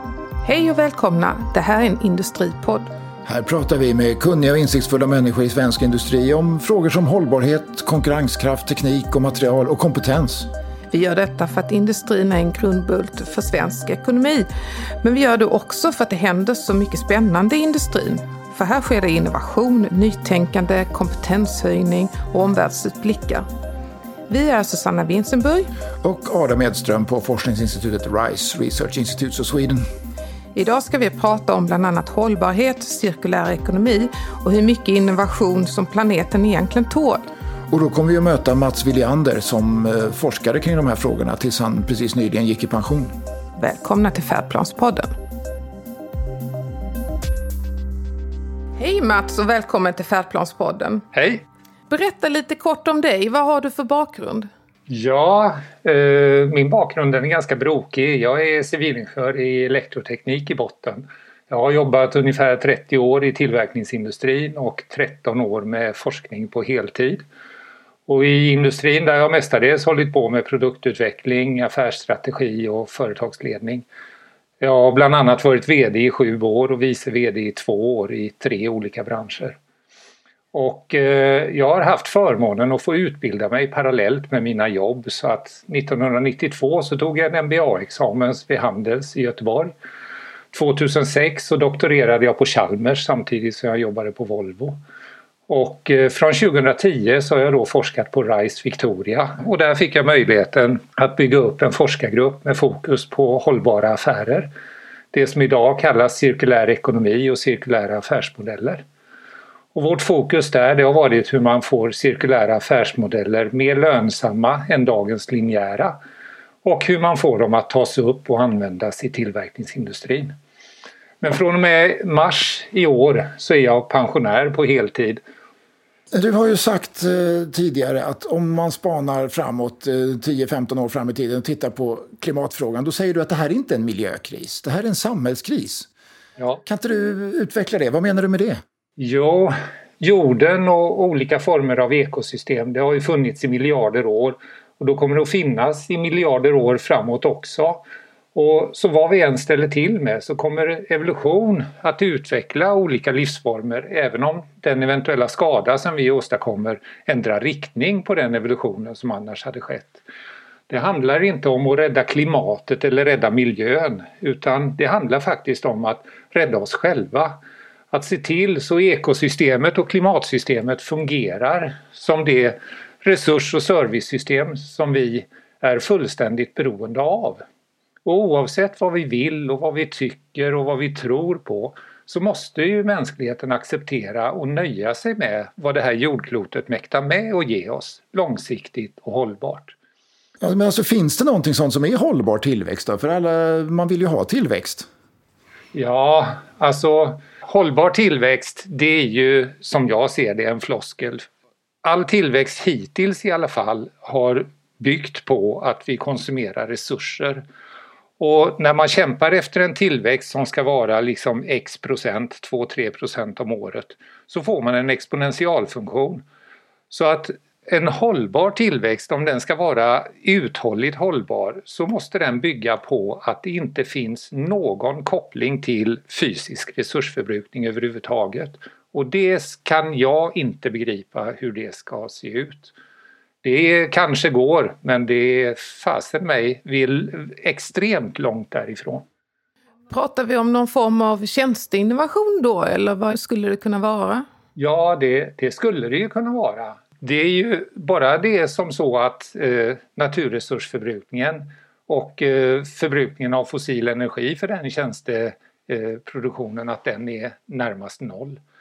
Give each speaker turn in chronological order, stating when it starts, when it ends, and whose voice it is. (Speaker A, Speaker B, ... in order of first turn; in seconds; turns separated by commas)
Speaker A: 0.5-2.9, Speaker B: 3.2-10.5, Speaker A: 10.9-14.5, Speaker A: 15.0-23.5, Speaker A: 24.3-25.7, Speaker B: 26.0-29.8, Speaker A: 30.5-37.3, Speaker B: 37.7-43.1, Speaker A: 43.6-45.1, Speaker A: 48.8-51.1, Speaker C: 51.1-51.4, Speaker A: 51.9-54.5, Speaker C: 54.9-67.2, Speaker C: 68.1-73.9, Speaker C: 74.6-79.6, Speaker C: 80.5-89.7, Speaker C: 90.5-94.8, Speaker C: 95.5-104.5, Speaker C: 105.1-108.8, Speaker C: 109.8-116.0, Speaker C: 116.6-120.3, Speaker C: 121.2-125.2, Speaker B: 126.1-135.9, Speaker B: 136.7-138.6, Speaker C: 139.0-147.8, Speaker C: 148.3-160.0, Speaker C: 160.7-167.4, Speaker C: 167.9-177.4, Speaker C: 178.1-189.8, Speaker B: 190.4-194.9, Speaker C: 195.7-201.3, Speaker C: 201.8-207.4, Speaker C: 208.2-216.2, Speaker C: 216.9-232.7, Speaker C: 233.4-239.1, Speaker A: 239.9-244.3, Speaker C: 244.6-258.4